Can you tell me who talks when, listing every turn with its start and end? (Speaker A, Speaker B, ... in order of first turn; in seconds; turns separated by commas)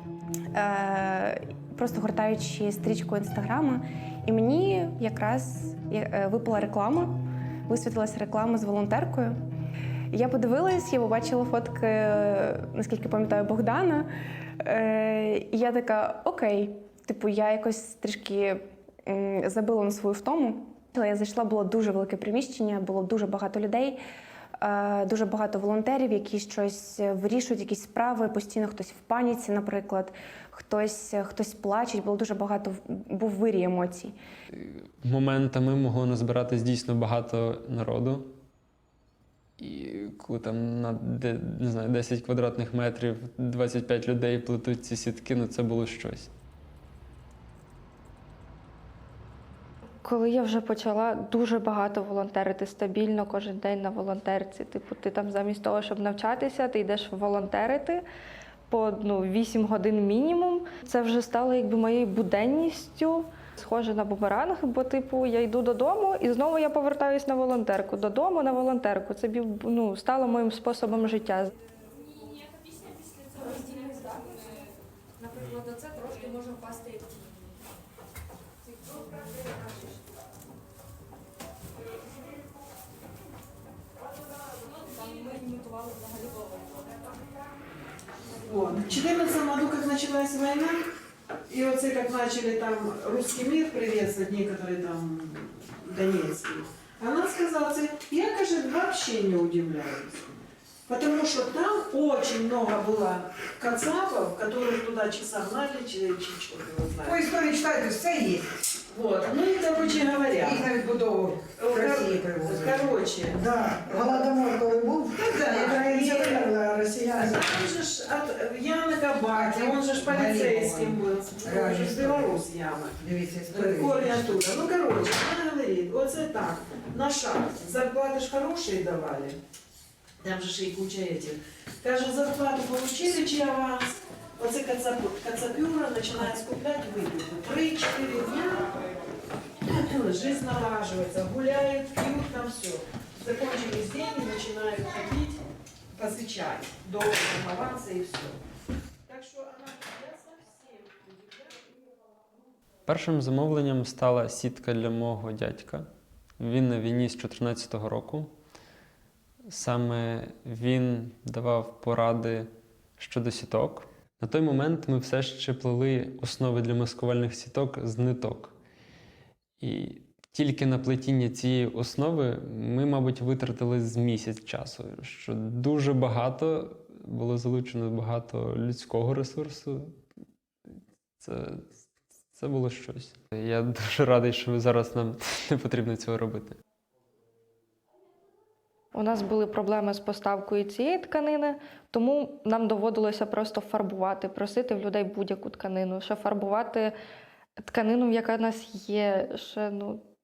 Speaker A: 0.5-9.4, Speaker A: 10.1-14.1, Speaker A: 14.6-24.0, Speaker A: 24.6-34.1, Speaker B: 34.5-38.4, Speaker B: 39.6-46.3, Speaker C: 50.0-58.0, Speaker C: 58.7-71.5, Speaker D: 88.4-90.8, Speaker D: 91.5-107.2, Speaker D: 108.9-110.7, Speaker D: 111.6-113.4, Speaker E: 112.0-112.5, Speaker E: 113.3-117.6, Speaker D: 115.5-116.5, Speaker D: 117.2-129.4, Speaker D: 130.2-133.8, Speaker D: 134.4-138.8, Speaker D: 139.6-145.4, Speaker D: 145.9-148.4, Speaker D: 149.1-151.5, Speaker B: 152.9-155.9, Speaker B: 156.4-158.3, Speaker B: 159.5-168.6, Speaker B: 169.6-180.0, Speaker B: 181.2-181.8, Speaker B: 182.3-186.6, Speaker C: 188.9-196.9, Speaker C: 197.6-200.0